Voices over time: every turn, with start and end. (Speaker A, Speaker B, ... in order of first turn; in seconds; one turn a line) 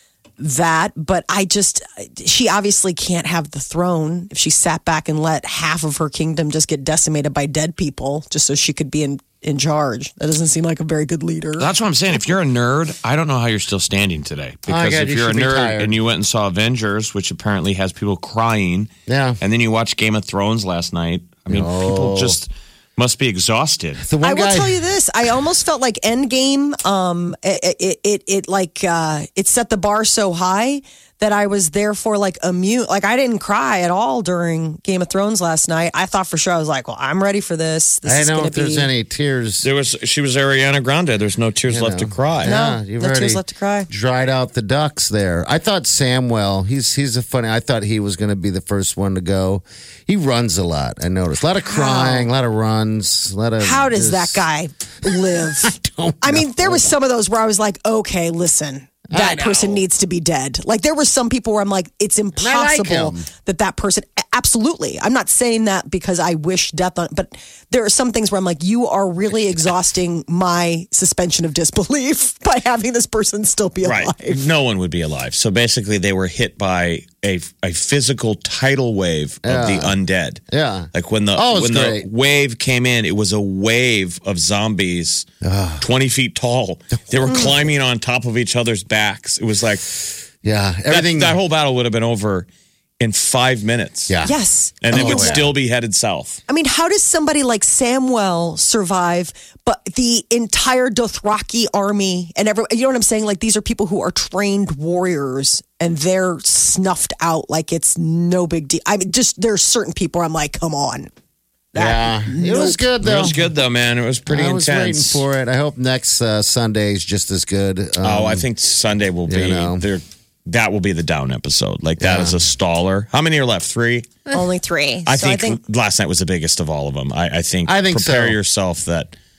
Speaker A: 0.4-11.7
Speaker B: 11.6-18.9
Speaker C: 14.7-16.0
Speaker C: 19.1-19.4
Speaker B: 19.4-24.0
Speaker C: 21.5-22.4
Speaker C: 24.0-24.8
Speaker A: 24.2-38.9
Speaker C: 38.0-39.7
Speaker B: 39.6-42.5
Speaker C: 41.7-54.5
Speaker A: 42.4-43.9
Speaker A: 51.7-52.3
Speaker A: 53.6-74.4
Speaker C: 55.6-56.9
Speaker C: 59.1-59.8
Speaker C: 62.4-63.3
Speaker B: 73.8-85.2
Speaker C: 79.4-80.0
Speaker C: 80.5-82.1
Speaker C: 85.4-85.9
Speaker B: 85.8-89.9
Speaker A: 87.3-87.5
Speaker C: 90.4-91.4
Speaker B: 90.9-92.5
Speaker B: 93.0-94.1
Speaker C: 94.1-94.3
Speaker A: 94.2-95.5
Speaker B: 94.8-96.4
Speaker C: 94.9-95.5
Speaker A: 96.5-111.1
Speaker A: 111.7-112.8
Speaker C: 111.7-113.4
Speaker B: 113.0-115.2
Speaker C: 114.2-118.5
Speaker B: 118.0-124.1
Speaker C: 119.3-119.8
Speaker C: 122.0-122.4
Speaker A: 124.3-125.6
Speaker B: 125.0-129.1
Speaker C: 127.6-128.4